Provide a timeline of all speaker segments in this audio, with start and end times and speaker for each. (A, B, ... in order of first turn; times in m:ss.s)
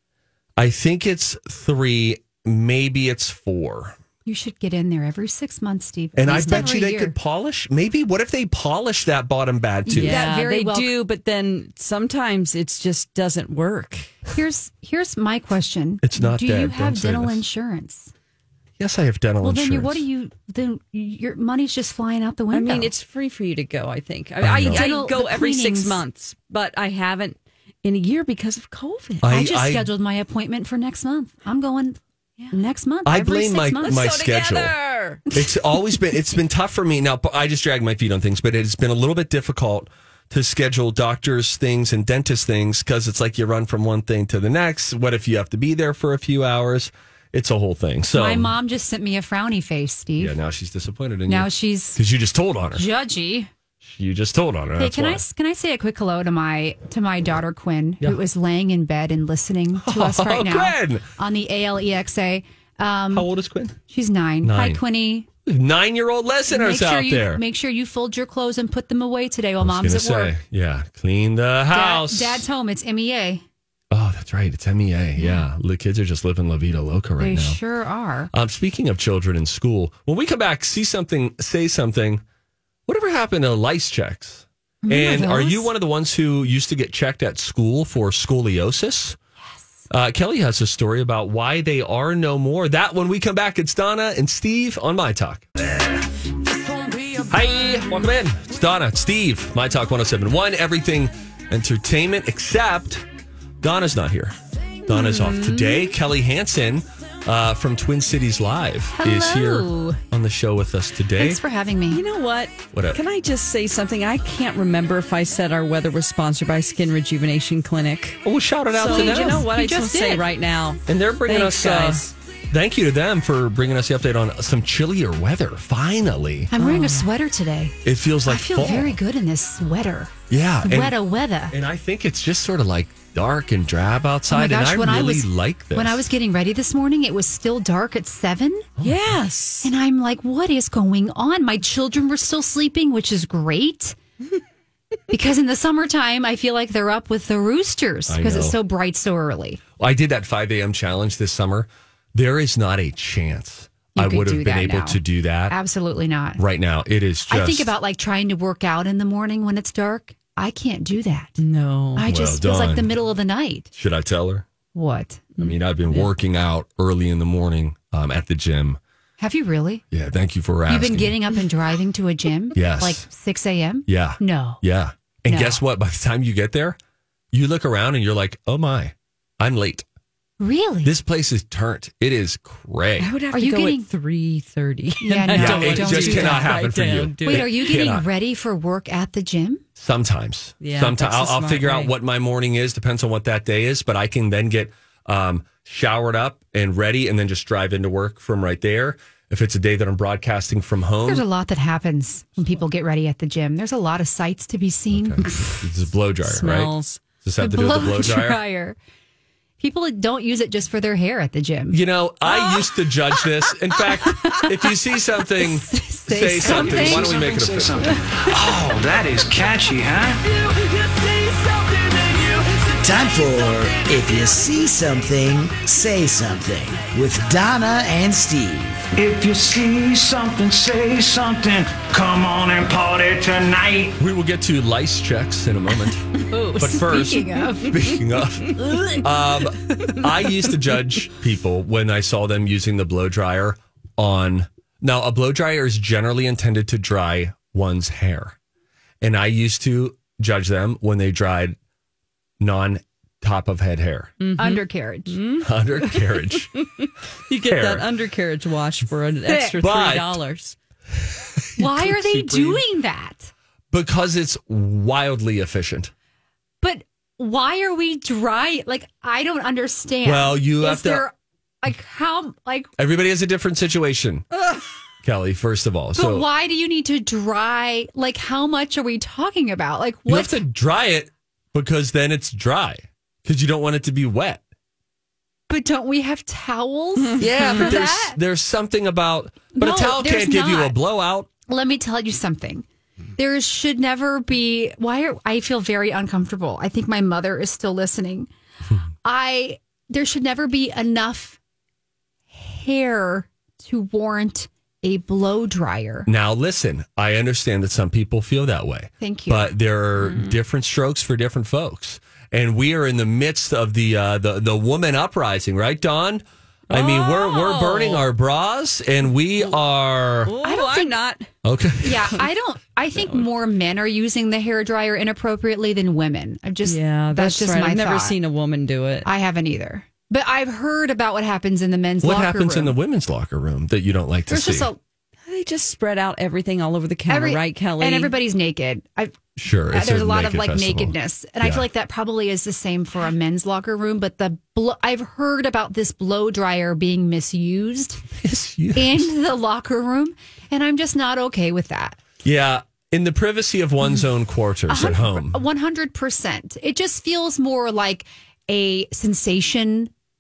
0:00.6-0:04.0 A
0:04.3-0:07.2 B
0:06.2-0:10.3 A
0:09.9-0:10.9 B
0:10.0-0:14.2 C
0:14.3-0:18.1 B
0:16.0-0:17.4 A
0:18.8-0:20.0 A
0:19.4-0:22.9 B
0:22.5-0:29.3 C
0:24.4-0:24.9 A
0:24.7-0:26.0 B
0:29.2-0:29.9 A
0:29.3-0:32.0 B
0:32.5-0:34.0 B
0:33.0-0:34.8 A
0:33.8-0:35.2 C
0:35.3-0:48.6 A
0:48.1-0:50.4 B
0:50.2-0:52.8 A
0:51.3-0:52.0 B
0:52.8-0:53.5 B
0:53.8-0:55.2 A
0:54.8-1:03.3 B
0:59.8-1:01.1 A
1:03.1-1:03.8 A
1:03.9-1:05.3 B
1:04.4-1:04.8 A
1:05.5-1:07.4 A
1:06.5-1:10.3 B
1:09.6-1:12.4 A
1:11.7-1:13.4 B
1:13.9-1:17.6 A
1:15.2-1:15.5 B
1:17.2-1:18.3 B
1:18.3-1:22.2 A
1:22.9-1:29.2 A
1:24.8-1:25.7 B
1:29.4-1:29.8 B
1:29.9-1:35.5 A
1:37.3-1:43.0 A
1:43.6-1:44.4 A
1:44.9-1:51.4 A
1:44.9-1:45.9 B
1:49.0-1:50.0 B
1:51.2-1:52.0 B
1:51.9-1:58.2 C
1:52.7-1:53.0 A
1:58.2-1:59.5 A
1:58.7-2:02.1 C
1:58.9-2:00.2 B
2:00.9-2:06.5 A
2:06.5-2:07.8 B
2:06.6-2:07.1 C
2:07.8-2:09.0 A
2:08.3-2:11.6 B
2:10.3-2:11.0 A
2:11.5-2:16.0 A
2:14.3-2:18.7 B
2:18.8-2:19.7 C
2:19.6-2:24.0 B
2:25.1-2:29.6 B
2:28.1-2:28.6 A
2:29.8-2:35.6 A
2:34.0-2:36.4 B
2:36.4-2:37.7 A
2:37.3-2:41.4 B
2:41.4-2:42.1 C
2:42.0-2:43.7 B
2:42.0-2:42.9 A
2:43.7-2:44.5 A
2:44.7-2:45.3 B
2:45.4-2:48.8 A
2:45.4-2:46.1 C
2:49.2-2:49.8 B
2:49.9-2:51.2 A
2:50.7-2:54.6 B
2:52.6-2:53.1 A
2:53.9-2:56.8 A
2:55.3-2:55.6 B
2:57.3-2:59.8 A
3:00.4-3:00.9 B
3:00.8-3:03.1 A
3:03.0-3:07.5 C
3:03.3-3:03.9 B
3:05.0-3:06.5 B
3:05.4-3:08.1 A
3:07.2-3:09.6 B
3:09.8-3:21.2 A
3:10.6-3:11.9 C
3:21.0-3:25.6 B
3:24.9-3:28.4 A
3:26.2-3:27.0 C
3:27.4-3:28.8 B
3:29.6-3:31.8 B
3:31.7-3:37.9 A
3:34.1-3:34.5 B
3:35.4-3:37.3 B
3:36.4-3:40.2 D
3:40.8-3:41.5 C
3:42.8-3:48.9 E
3:49.0-3:54.0 D
3:54.0-4:08.4 A
3:56.3-3:57.8 B
4:09.0-4:11.6 A
4:12.4-4:14.1 A
4:14.2-4:20.6 C
4:14.4-4:15.2 B
4:15.4-4:16.6 A
4:17.5-4:17.9 A
4:19.3-4:19.6 B
4:19.6-4:20.2 A
4:21.1-4:22.6 A
4:21.6-4:23.3 B
4:23.7-4:25.9 A
4:26.6-4:32.7 B
4:30.0-4:31.1 A
4:32.8-4:34.3 A
4:35.0-4:36.3 A
4:36.0-4:40.4 B
4:40.1-4:44.4 A
4:45.5-4:48.2 B
4:47.2-4:51.3 A
4:49.5-4:50.8 B
4:51.5-4:52.7 B
4:53.2-4:58.3 B
4:59.0-5:01.4 B
5:02.3-5:06.1 B
5:06.1-5:20.3 A
5:09.0-5:09.5 B
5:10.0-5:10.4 C
5:16.7-5:18.0 C
5:20.3-5:21.2 C
5:20.4-5:21.0 B
5:21.4-5:22.2 A
5:21.8-5:28.2 B
5:26.6-5:29.1 C
5:29.0-5:32.8 B
5:32.0-5:34.7 A
5:34.3-5:34.8 B
5:35.3-5:38.1 C
5:37.1-5:39.2 B
5:39.4-5:41.6 A
5:39.7-5:48.0 B
5:48.2-5:49.1 A
5:48.8-5:52.0 B
5:52.2-5:55.4 A
5:54.7-5:59.9 B